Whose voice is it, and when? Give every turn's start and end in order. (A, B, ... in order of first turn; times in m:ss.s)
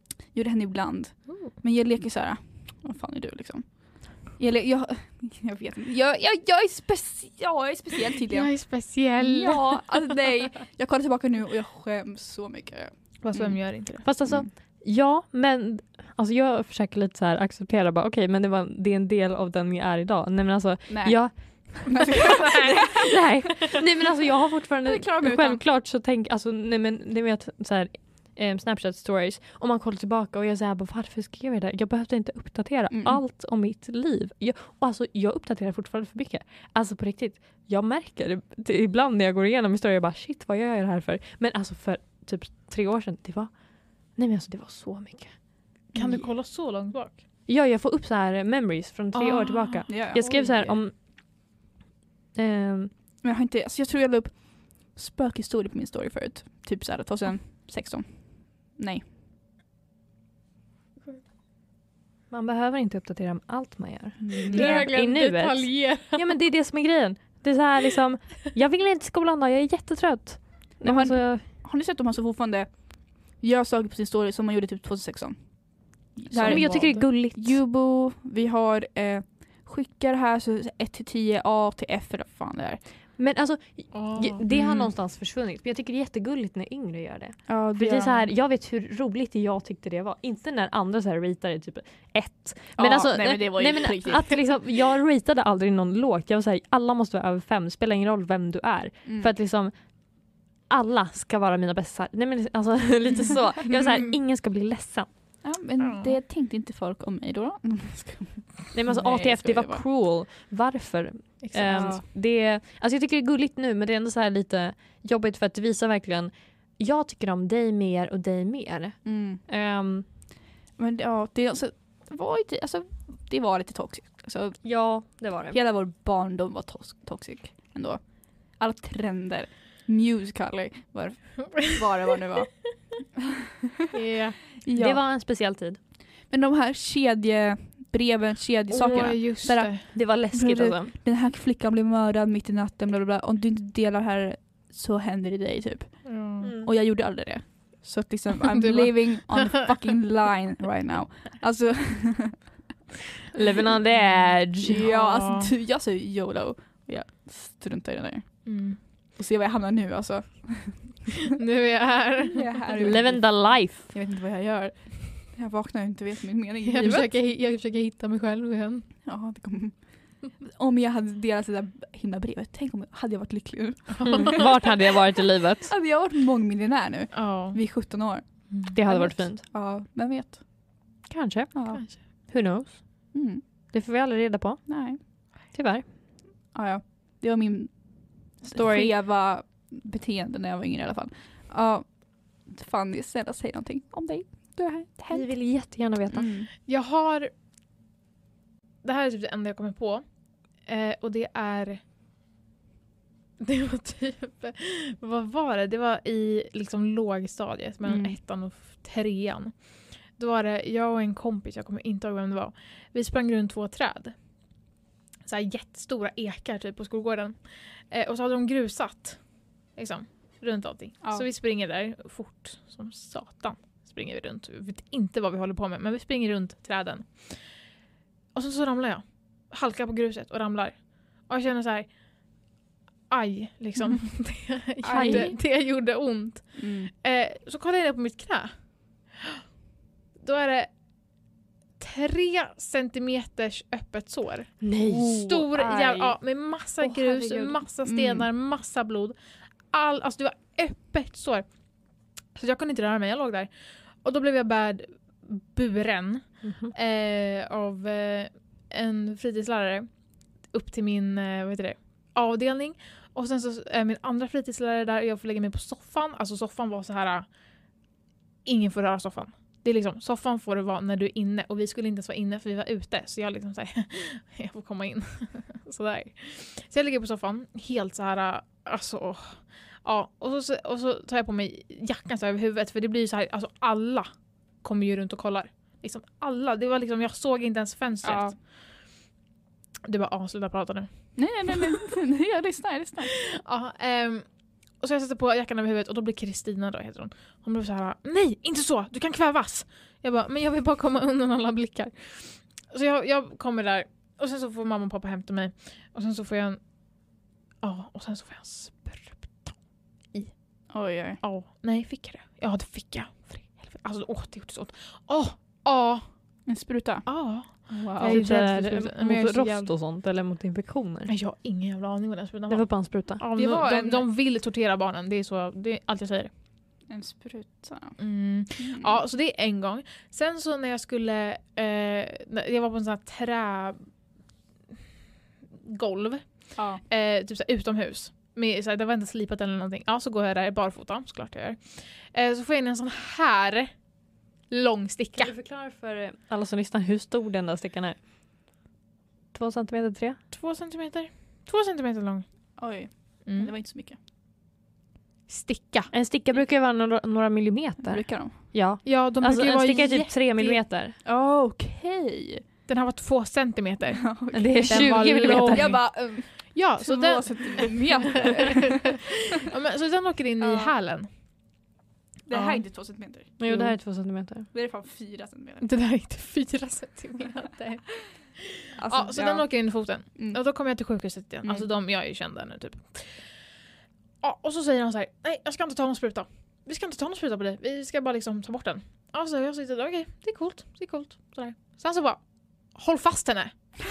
0:00.3-0:14.5 A
0:08.3-0:10.0 B
0:13.2-0:14.0 B
0:14.0-0:22.3 C
0:20.9-0:23.3 A
0:22.2-0:22.9 B
0:22.9-0:45.9 C
0:24.8-0:25.6 A
0:32.9-0:33.2 A
0:45.9-0:46.2 A
0:45.9-0:47.2 B
0:47.4-0:51.0 C
0:49.1-0:50.8 B
0:49.9-0:50.3 A
0:52.3-0:52.9 C
0:53.2-0:59.0 A
1:02.3-1:11.4 C
1:04.2-1:04.9 A
1:04.5-1:06.2 B
1:10.8-1:22.8 A
1:16.3-1:17.0 B
1:16.4-1:17.6 C
1:23.2-1:45.1 C
1:23.9-1:24.9 B
1:27.5-1:28.3 A
1:32.8-1:34.4 A
1:39.0-1:39.3 A
1:45.4-1:49.8 A
1:45.8-1:46.2 B
1:48.7-2:00.1 C
1:51.4-1:52.0 B
1:51.8-1:52.0 A
1:59.0-1:59.4 A
2:00.8-2:13.3 A
2:04.6-2:05.6 C
2:13.9-2:14.4 B
2:14.6-2:15.0 A
2:14.7-2:15.8 C
2:16.3-2:32.4 A
2:18.7-2:19.8 B
2:18.8-2:19.1 C
2:19.9-2:20.9 C
2:26.0-2:26.5 B
2:26.4-2:26.7 C
2:28.5-2:29.7 B
2:33.3-2:34.8 C
2:34.6-2:35.5 B
2:34.6-2:41.2 A
2:38.4-2:38.8 B
2:41.4-2:43.0 B
2:42.3-2:47.1 A
2:42.8-2:43.9 C
2:46.6-2:48.9 B
2:49.0-2:54.5 A
2:54.0-2:54.3 B
2:54.1-2:55.7 C
2:55.6-3:00.5 A
2:57.1-2:57.6 B
2:58.7-2:59.4 C
3:01.0-3:03.1 C
3:01.5-3:01.8 A
3:01.7-3:02.0 B
3:03.1-3:03.4 A
3:03.7-3:04.8 C
3:04.7-3:05.0 A
3:05.5-3:05.9 C
3:06.5-3:16.5 A
3:08.5-3:08.9 C
3:15.1-3:16.3 C
3:16.6-3:17.3 B
3:18.8-3:20.0 B
3:20.6-3:21.8 B
3:23.4-3:34.1 B
3:27.8-3:28.2 A
3:35.2-3:39.2 B
3:39.7-3:47.5 B
3:48.3-3:51.9 B
3:53.1-3:58.5 B
3:54.8-3:55.4 A
3:54.9-3:55.3 C
3:56.6-3:56.9 A
3:59.1-3:59.4 B
4:00.2-4:00.7 B
4:01.8-4:09.1 B
4:04.6-4:05.2 C
4:04.8-4:06.2 A
4:06.8-4:07.3 C
4:06.9-4:08.3 A
4:09.7-4:11.5 B
4:12.3-4:19.9 B
4:16.4-4:16.7 C
4:20.4-4:27.2 B
4:28.4-4:44.1 B
4:44.6-4:48.4 B
4:48.0-4:48.4 A
4:49.8-4:51.8 B
4:51.2-4:53.1 A
4:53.1-4:54.2 B
4:54.8-5:06.6 B
5:07.6-5:09.6 B
5:10.7-5:11.2 A
5:11.2-5:16.1 B
5:16.4-5:18.2 A
5:17.0-5:19.7 B
5:18.0-5:21.1 C
5:21.1-5:26.3 B
5:22.5-5:23.2 C
5:23.4-5:24.1 A
5:26.9-5:28.0 A
5:28.0-5:33.8 B
5:28.6-5:29.0 A
5:35.6-5:43.7 B
5:36.6-5:36.8 A
5:44.5-5:45.3 B
5:45.2-5:48.0 C
5:49.3-5:50.2 C
5:50.3-5:52.3 B
5:52.6-5:54.0 A
5:53.2-5:53.5 B
5:55.3-5:55.9 B
5:55.9-6:01.0 C
5:57.9-5:58.4 A
5:58.8-6:00.6 B
6:01.0-6:02.4 A
6:02.7-6:11.1 B
6:04.0-6:09.0 A
6:04.3-6:05.7 C
6:10.4-6:10.7 A
6:12.3-6:13.8 A
6:12.3-6:12.6 B
6:13.4-6:14.5 C
6:14.5-6:15.7 A
6:15.6-6:23.4 B
6:18.8-6:19.5 A
6:20.0-6:20.4 A
6:24.2-6:32.2 B
6:32.7-6:33.6 B